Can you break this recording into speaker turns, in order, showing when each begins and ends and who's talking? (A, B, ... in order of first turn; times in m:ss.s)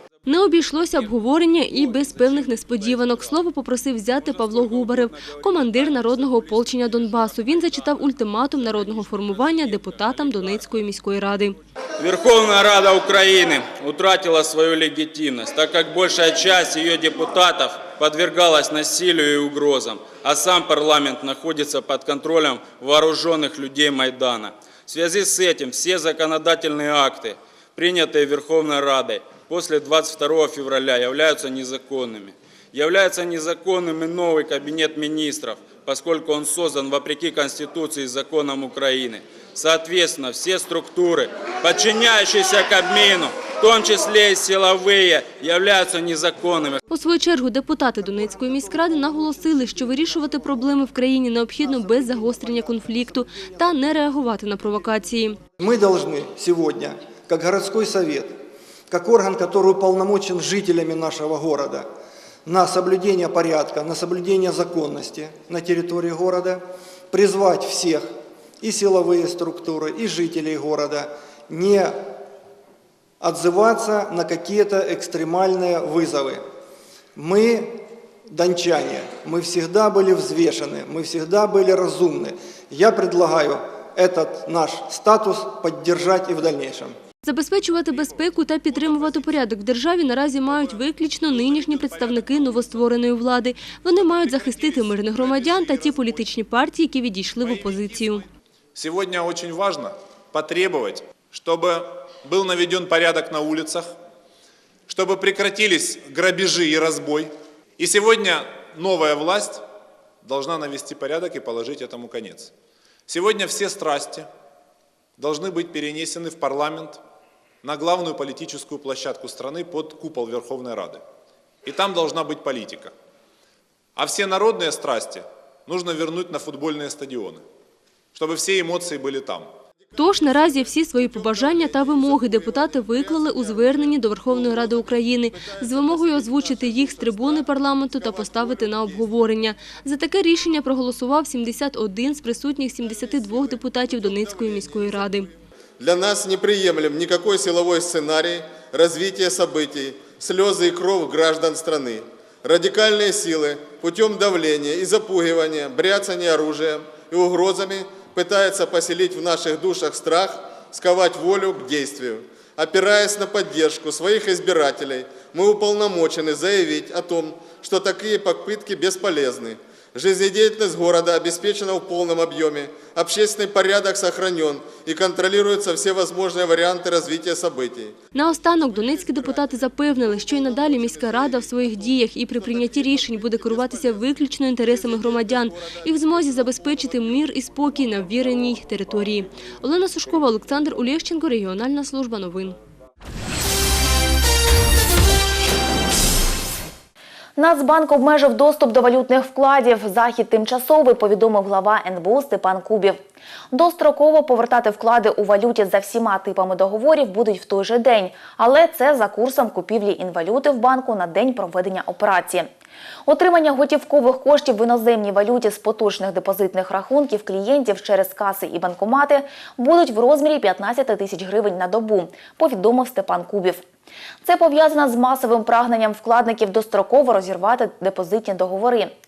0:00.2-0:11.6 A
0:12.0-0:46.8 B
0:46.9-0:55.4 A
0:55.6-0:58.3 C
0:58.9-1:01.9 C
1:02.4-1:08.0 C
1:08.6-1:12.0 C
1:13.2-1:16.4 C
1:17.2-1:17.8 C
1:18.3-1:26.9 C
1:27.2-1:38.2 A
1:31.3-1:32.6 D
1:34.1-1:36.1 D
1:38.8-1:43.8 D
1:44.9-1:49.6 D
1:50.2-1:52.5 D
1:53.1-1:54.3 D
1:55.2-1:57.0 D
1:57.6-2:01.0 D
2:01.6-2:02.9 D
2:04.0-2:07.4 D
2:08.1-2:09.5 D
2:09.9-2:19.1 E
2:10.0-2:25.3 A
2:22.8-2:25.3 E
2:25.8-2:57.9 E
2:58.1-3:12.6 A
2:58.7-3:01.6 E
3:02.4-3:04.0 E
3:04.7-3:06.4 E
3:17.4-3:23.0 F
3:23.5-3:32.5 F
3:33.0-3:43.6 F
3:44.2-3:48.9 F